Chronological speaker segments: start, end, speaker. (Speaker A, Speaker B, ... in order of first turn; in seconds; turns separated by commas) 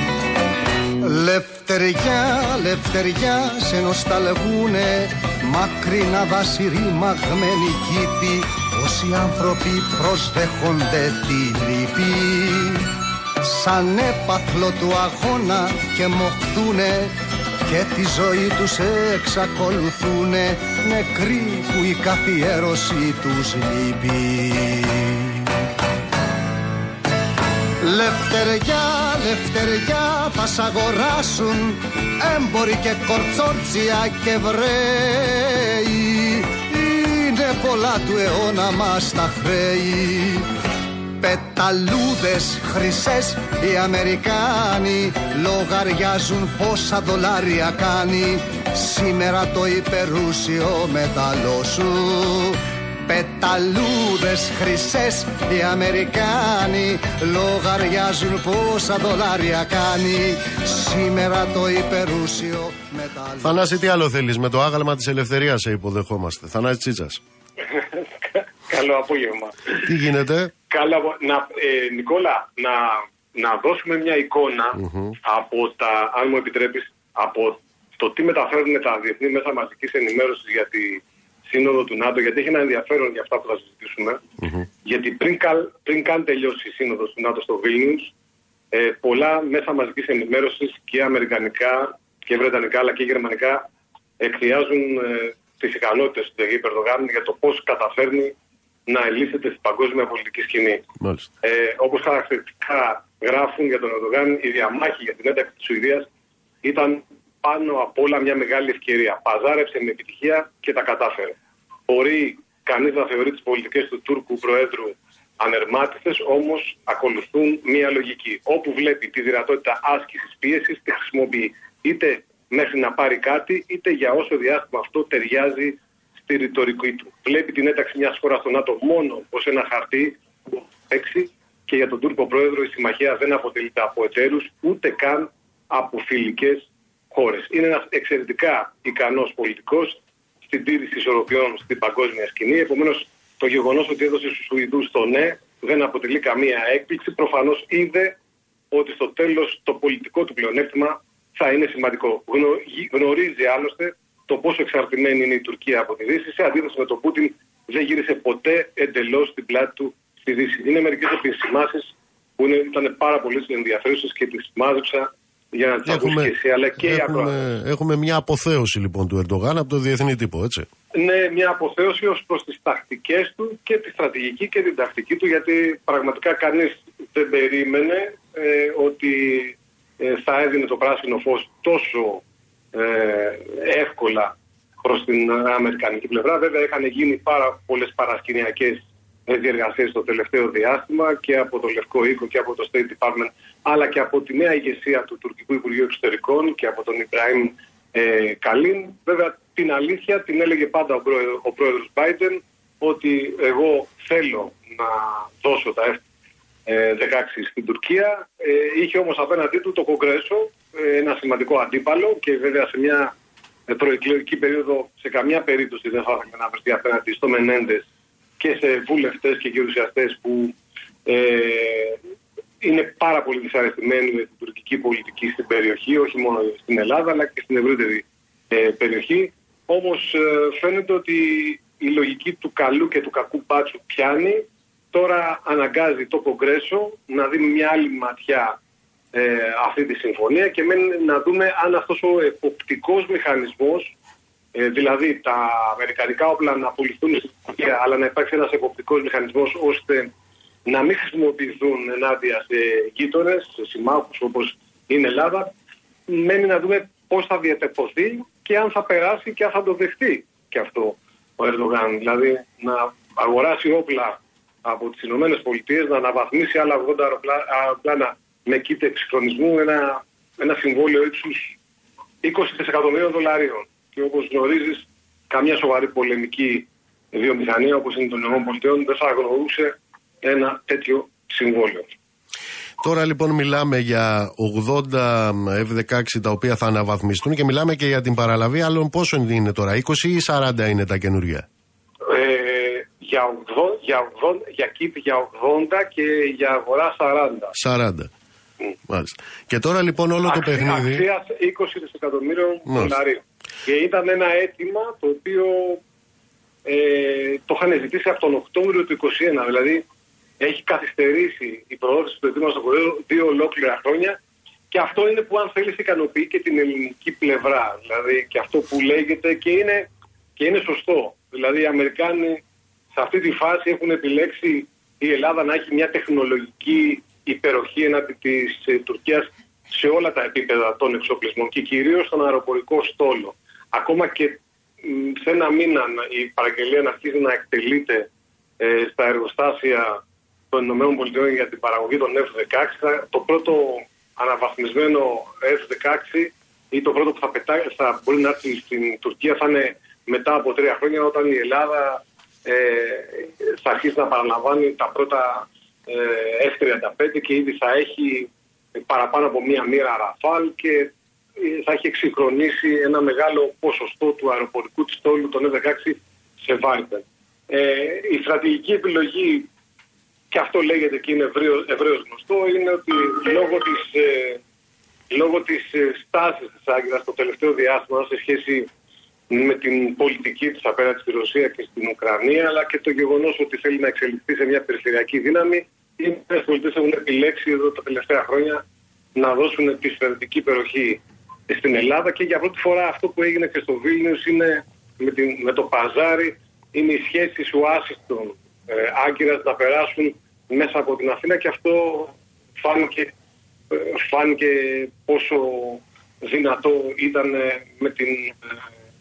Speaker A: 1.0-25.5, Speaker A: 27.8-40.5, Speaker A: 41.2-63.7, Speaker B: 63.4-67.2, Speaker C: 67.7-69.8, Speaker B: 69.8-70.5, Speaker C: 70.7-84.2, Speaker B: 74.8-75.2, Speaker C: 84.8-88.1, Speaker C: 88.7-93.6, Speaker C: 94.2-98.3, Speaker C: 98.9-100.8, Speaker B: 101.0-101.3, Speaker C: 101.4-106.1, Speaker C: 106.6-111.3, Speaker C: 111.9-148.2, Speaker C: 148.7-167.3, Speaker B: 165.8-170.7, Speaker C: 170.9-182.2, Speaker C: 182.7-206.0, Speaker C: 206.7-213.1, Speaker C: 213.7-217.8, Speaker C: 218.4-220.5, Speaker C: 221.1-222.0, Speaker C: 222.6-238.5, Speaker C: 239.1-243.9, Speaker C: 244.5-250.1, Speaker C: 250.7-255.5, Speaker C: 256.1-271.5, Speaker C: 272.2-279.7, Speaker C: 280.2-281.9, Speaker B: 282.8-291.4, Speaker C: 292.1-297.5, Speaker B: 297.6-298.1, Speaker B: 298.9-301.0, Speaker C: 300.3-305.8, Speaker B: 302.7-302.9, Speaker C: 306.6-309.8, Speaker C: 310.4-314.2, Speaker C: 314.7-322.4, Speaker C: 322.9-338.1, Speaker C: 338.6-340.0, Speaker C: 340.5-369.5, Speaker C: 370.3-374.4, Speaker C: 375.1-378.7, Speaker C: 379.3-388.6, Speaker C: 389.1-403.1, Speaker C: 403.7-408.5